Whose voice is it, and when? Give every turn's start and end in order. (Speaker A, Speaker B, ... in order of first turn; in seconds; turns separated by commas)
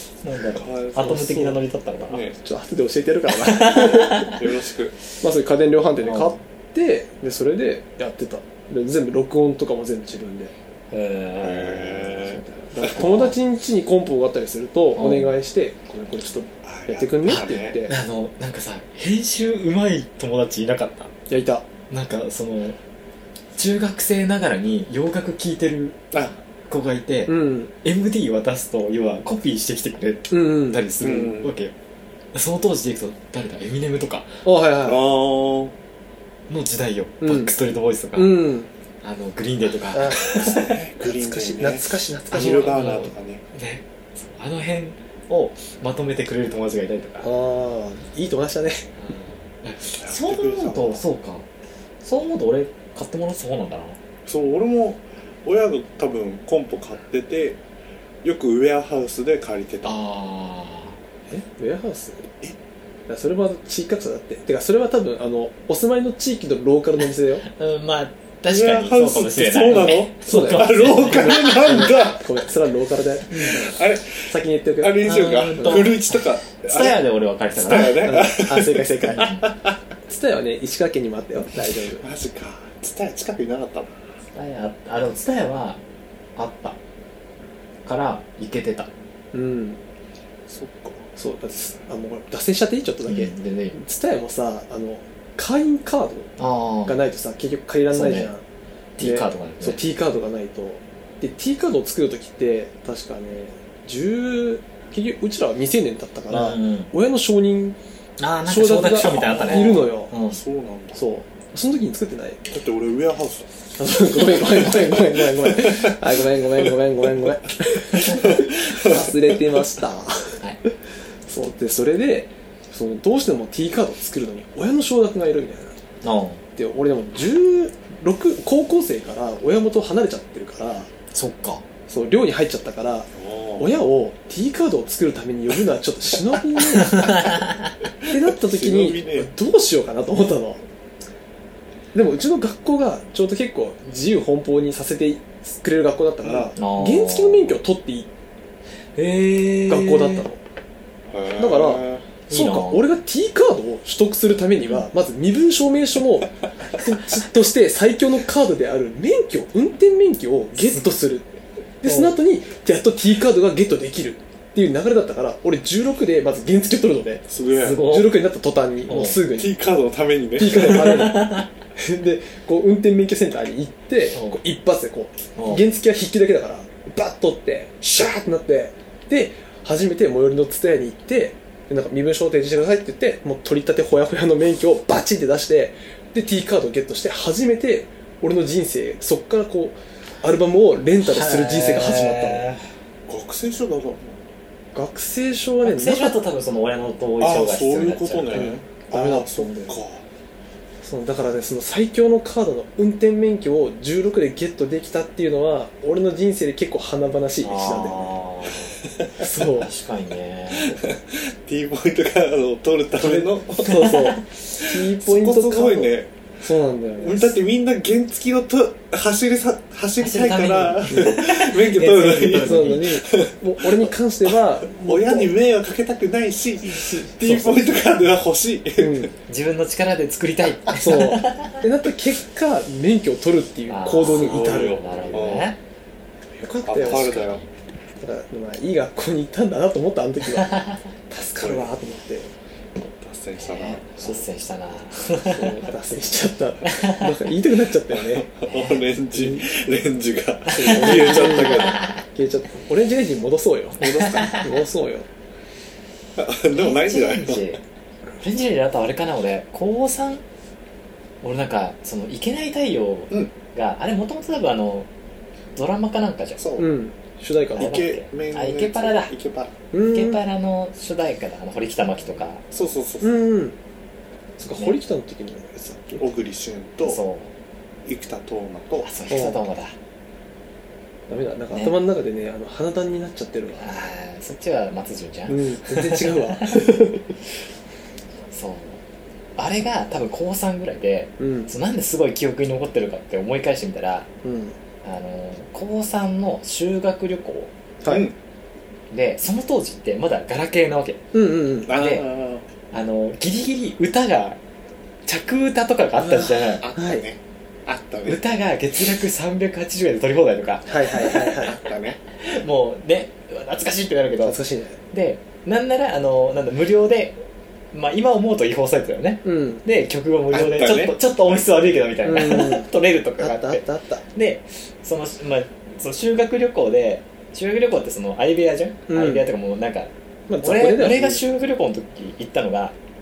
Speaker A: 0.2-2.2, Speaker B: 0.5-1.3, Speaker C: 1.0-1.6, Speaker B: 2.0-2.4, Speaker C: 2.4-4.3, Speaker A: 3.4-4.4, Speaker B: 4.3-5.0, Speaker C: 5.2-10.5, Speaker A: 6.0-6.3, Speaker A: 10.9-12.2, Speaker B: 11.4-12.9, Speaker C: 12.2-17.9, Speaker A: 12.9-13.3, Speaker A: 14.9-15.3, Speaker B: 16.6-17.8, Speaker A: 17.2-21.1, Speaker C: 21.3-21.6, Speaker A: 21.9-22.8, Speaker A: 23.6-26.0, Speaker B: 26.1-26.4, Speaker A: 26.7-31.7, Speaker C: 27.3-27.7, Speaker C: 30.3-31.1, Speaker B: 31.0-31.5, Speaker A: 32.3-34.4, Speaker C: 34.4-35.0, Speaker B: 34.8-35.7, Speaker A: 36.5-38.5, Speaker C: 37.2-37.5, Speaker C: 38.1-38.7, Speaker A: 39.0-40.7, Speaker C: 39.9-40.4, Speaker B: 40.3-43.4, Speaker C: 41.0-42.7, Speaker A: 42.4-47.3, Speaker C: 47.2-48.9, Speaker A: 49.0-51.5, Speaker B: 50.0-51.0, Speaker A: 52.0-54.0, Speaker B: 54.2-57.6, Speaker B: 58.2-60.0, Speaker A: 59.8-61.0, Speaker C: 61.3-62.3, Speaker C: 63.1-67.4, Speaker A: 67.5-71.9, Speaker B: 68.5-72.2, Speaker C: 70.2-75.9, Speaker B: 73.4-77.0, Speaker A: 75.0-78.3, Speaker B: 77.5-79.8, Speaker C: 78.0-79.4, Speaker A: 79.1-79.4, Speaker C: 80.1-82.0, Speaker B: 82.0-83.9, Speaker A: 84.3-85.8, Speaker A: 86.3-86.8, Speaker A: 87.8-88.9, Speaker C: 89.3-89.8, Speaker B: 90.5-91.0, Speaker C: 91.2-96.3, Speaker A: 93.1-93.8, Speaker A: 96.4-97.0, Speaker C: 96.8-98.4, Speaker A: 97.9-98.3, Speaker A: 99.0-99.8, Speaker C: 99.0-107.8, Speaker A: 106.3-106.9, Speaker A: 108.2-110.4, Speaker C: 108.4-110.1, Speaker B: 109.2-111.0, Speaker C: 110.9-112.4, Speaker B: 112.5-113.5, Speaker C: 113.8-120.7, Speaker B: 114.5-116.0, Speaker B: 118.1-119.1, Speaker C: 121.3-125.8, Speaker A: 126.0-126.4, Speaker C: 126.5-130.9, Speaker A: 131.1-131.6, Speaker C: 131.9-137.4, Speaker B: 133.1-133.8, Speaker A: 136.8-137.7, Speaker B: 138.0-139.3, Speaker C: 138.1-140.6, Speaker C: 141.9-148.1, Speaker B: 146.2-146.5, Speaker A: 146.6-147.6, Speaker A: 148.9-150.2, Speaker C: 149.7-150.4, Speaker B: 151.1-152.0, Speaker C: 151.3-169.5, Speaker A: 152.3-152.8, Speaker A: 161.8-162.2, Speaker B: 167.3-167.8, Speaker A: 167.6-168.2, Speaker A: 168.9-169.2, Speaker B: 169.3-170.9, Speaker C: 170.3-192.4, Speaker A: 170.5-171.5, Speaker A: 174.1-174.4, Speaker A: 175.4-175.6, Speaker B: 177.8-178.2, Speaker A: 191.0-192.6, Speaker B: 193.1-194.2, Speaker C: 194.7-196.2, Speaker A: 195.6-198.5, Speaker B: 197.2-200.0, Speaker C: 198.3-199.8, Speaker C: 200.8-208.1, Speaker A: 207.4-210.8, Speaker C: 209.2-209.7, Speaker B: 210.5-214.0, Speaker C: 213.0-217.4, Speaker B: 214.6-216.2, Speaker B: 217.0-223.9, Speaker A: 220.0-223.0, Speaker C: 220.9-221.2, Speaker C: 222.3-225.3, Speaker B: 224.7-229.1, Speaker C: 226.7-227.8, Speaker C: 228.8-229.1, Speaker A: 229.3-231.6, Speaker C: 230.7-235.1, Speaker A: 233.7-235.6, Speaker B: 234.0-235.5, Speaker C: 236.3-237.2, Speaker B: 236.7-237.4, Speaker A: 236.8-237.4, Speaker C: 238.0-242.3, Speaker A: 240.3-240.8, Speaker B: 241.4-241.7, Speaker B: 242.8-243.8, Speaker A: 243.4-245.7, Speaker C: 245.2-248.3, Speaker A: 246.7-247.1, Speaker B: 247.9-251.8, Speaker A: 248.5-248.8, Speaker C: 249.1-249.4, Speaker C: 250.5-255.1, Speaker A: 250.6-251.9, Speaker B: 253.8-254.5, Speaker A: 253.9-254.4, Speaker B: 256.1-257.6, Speaker A: 256.5-257.6, Speaker A: 258.2-260.2, Speaker A: 261.2-264.9, Speaker A: 265.6-266.4, Speaker B: 266.4-266.7, Speaker C: 266.6-267.7, Speaker A: 267.6-269.1, Speaker B: 267.6-269.5, Speaker C: 269.7-270.2, Speaker A: 269.8-272.4, Speaker B: 272.5-273.2, Speaker C: 273.0-273.6, Speaker C: 274.4-276.1, Speaker B: 276.0-277.0, Speaker A: 276.8-277.3, Speaker B: 277.9-278.9, Speaker A: 278.8-279.7, Speaker C: 279.1-279.4, Speaker C: 281.1-283.8, Speaker A: 283.6-286.7, Speaker C: 285.3-287.1, Speaker A: 288.3-288.8, Speaker A: 289.4-294.1, Speaker C: 291.2-291.5, Speaker C: 294.2-294.5, Speaker A: 294.8-297.5, Speaker C: 297.8-298.1, Speaker B: 297.9-298.1, Speaker A: 298.9-301.0, Speaker C: 301.1-301.7, Speaker B: 301.7-302.4, Speaker A: 301.7-302.1, Speaker A: 302.7-304.4, Speaker A: 305.1-306.7, Speaker C: 306.0-307.0, Speaker B: 306.6-308.2, Speaker A: 308.1-311.4, Speaker C: 310.6-311.6, Speaker B: 311.0-312.0, Speaker A: 312.2-314.4, Speaker C: 314.2-314.8, Speaker A: 314.9-317.2, Speaker A: 317.7-323.6, Speaker C: 319.2-319.6, Speaker B: 320.3-320.9, Speaker C: 322.0-324.0, Speaker A: 324.1-329.9, Speaker C: 328.9-329.2, Speaker C: 330.3-331.2, Speaker A: 330.4-332.7